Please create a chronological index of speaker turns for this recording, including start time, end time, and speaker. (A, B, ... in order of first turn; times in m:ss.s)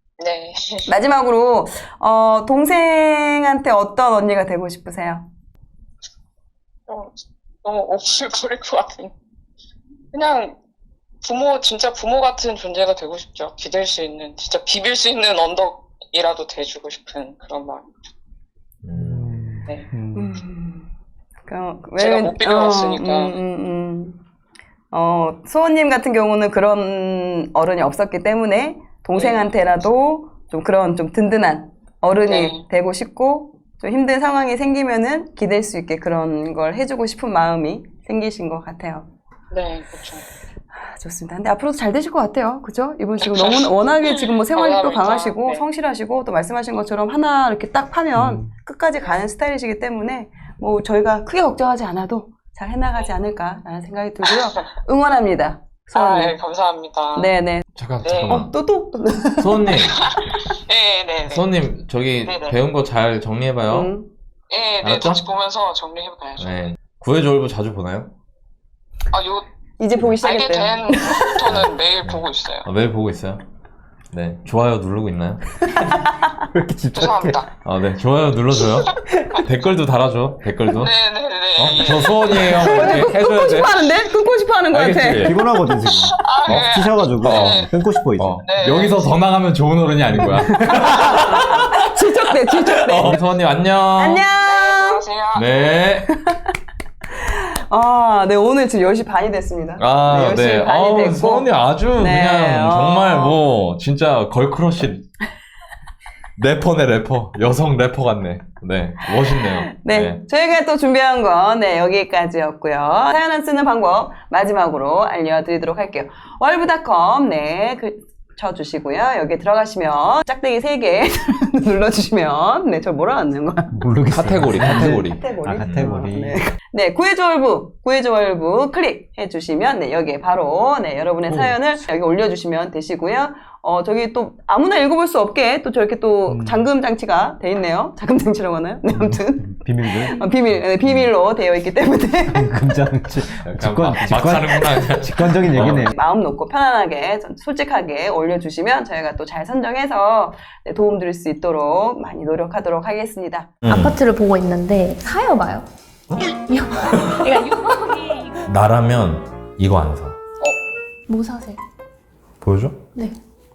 0:00.2-0:00.9 A
0:00.9-0:05.3 B
0:06.9-0:09.1 A
0:10.1-0:10.6 A
0:11.2-0:18.0 A
0:18.8-0:19.6 C
0:18.9-0:20.4 D
0:20.1-0:20.9 B
0:21.4-0:24.2 B
0:22.0-0:23.4 A
0:24.9-0:39.1 B
0:29.1-0:29.5 A
0:32.2-0:32.6 A
0:39.5-0:40.2 A
0:40.8-0:56.4 B
0:43.2-0:45.6 A
0:48.1-0:48.5 D
0:54.2-0:54.7 A
0:55.9-0:57.3 A
0:57.1-0:57.6 B
0:57.7-0:58.5 C
0:58.0-0:58.4 A
0:58.3-0:59.8 B
0:59.4-1:00.2 C
0:59.8-1:01.5 A
1:01.3-1:03.9 C
1:02.2-1:02.6 A
1:03.7-1:04.1 B
1:04.5-1:06.6 A
1:04.8-1:05.2 C
1:06.4-1:08.1 C
1:09.1-1:09.4 A
1:09.8-1:11.4 B
1:10.2-1:12.7 A
1:11.5-1:13.4 C
1:14.1-1:16.1 C
1:15.8-1:16.4 B
1:16.5-1:17.4 D
1:16.9-1:17.5 A
1:17.6-1:20.9 C
1:20.7-1:23.0 A
1:21.6-1:23.8 C
1:22.6-1:25.4 B
1:24.7-1:25.4 C
1:25.2-1:28.4 D
1:25.9-1:27.7 A
1:27.2-1:31.7 C
1:28.4-1:29.1 A
1:30.2-1:30.9 D
1:30.3-1:33.2 B
1:32.9-1:34.2 C
1:34.0-1:35.0 B
1:34.4-1:35.8 A
1:35.3-1:36.1 C
1:36.1-1:36.5 B
1:37.2-1:43.4 B
1:39.8-1:45.1 C
1:46.4-1:50.2 C
1:49.1-2:03.9 B
2:03.7-2:06.4 D
2:04.1-2:06.2 C
2:04.5-2:22.5 B
2:11.2-2:11.8 D
2:16.3-2:16.7 D
2:18.9-2:21.1 D
2:22.3-2:26.0 D
2:23.4-2:25.9 C
2:25.6-2:33.5 B
2:33.6-2:34.0 C
2:33.7-2:35.6 E
2:36.3-2:38.2 E
2:36.8-2:37.4 C
2:38.4-2:40.2 C
2:41.1-2:41.6 E
2:42.4-2:42.9 C